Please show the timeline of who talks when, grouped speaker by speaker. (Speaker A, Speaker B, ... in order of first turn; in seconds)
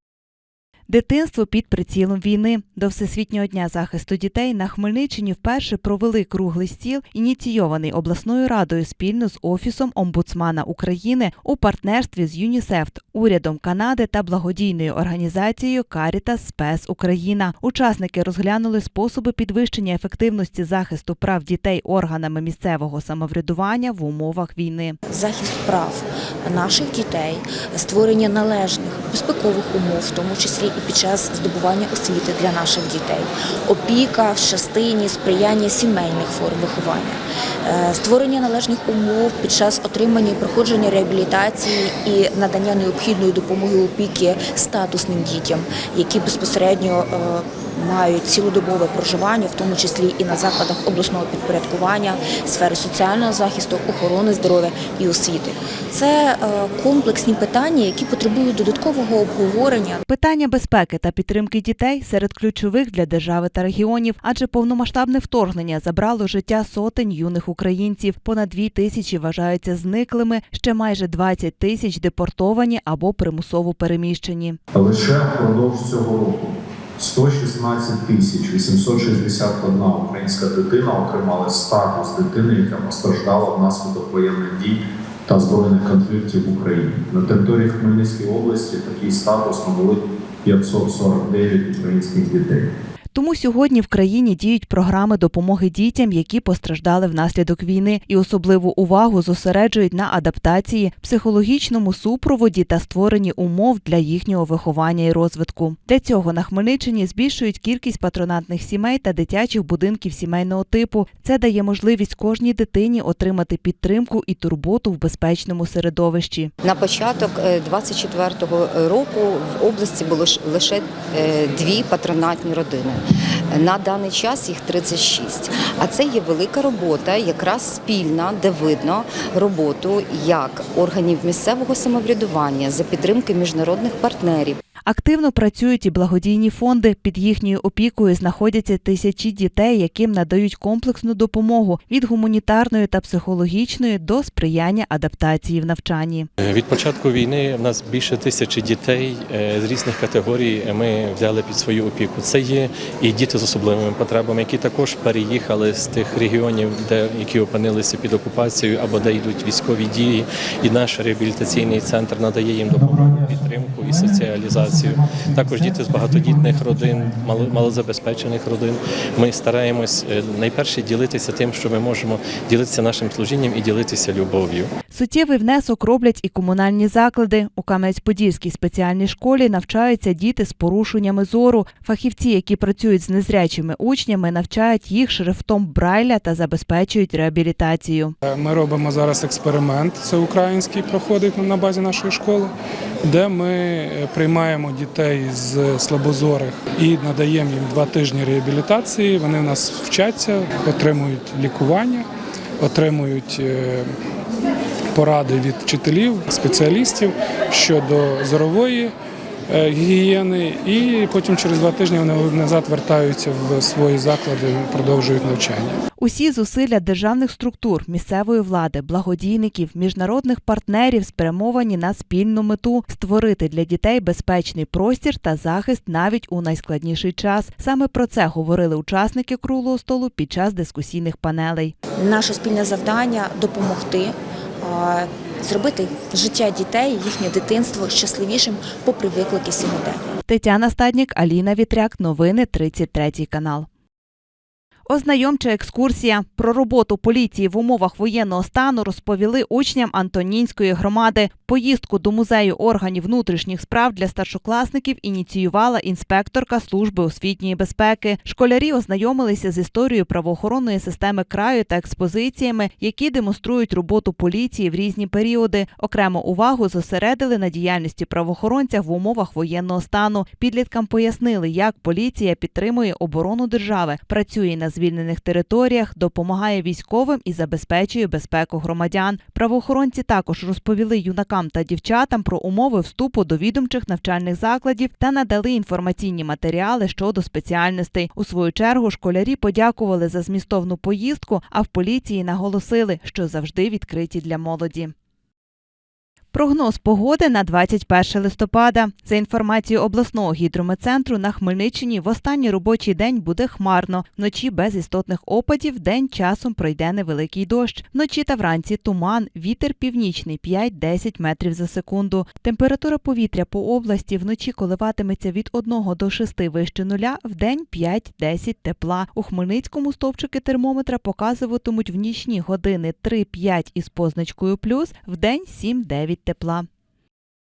Speaker A: 0.9-25.0, 60.0-74.6, 93.1-116.5, 134.8-146.3, 174.9-188.1, 216.0-231.7, 240.2-243.7, 244.9-294.9, 296.3-326.7
Speaker B: 25.1-60.0, 232.0-240.1
Speaker C: 74.7-92.7
Speaker D: 116.6-134.6
Speaker E: 146.4-174.7
Speaker F: 188.2-192.5, 193.1-202.1, 202.6-203.9, 204.9-208.9, 209.5-215.8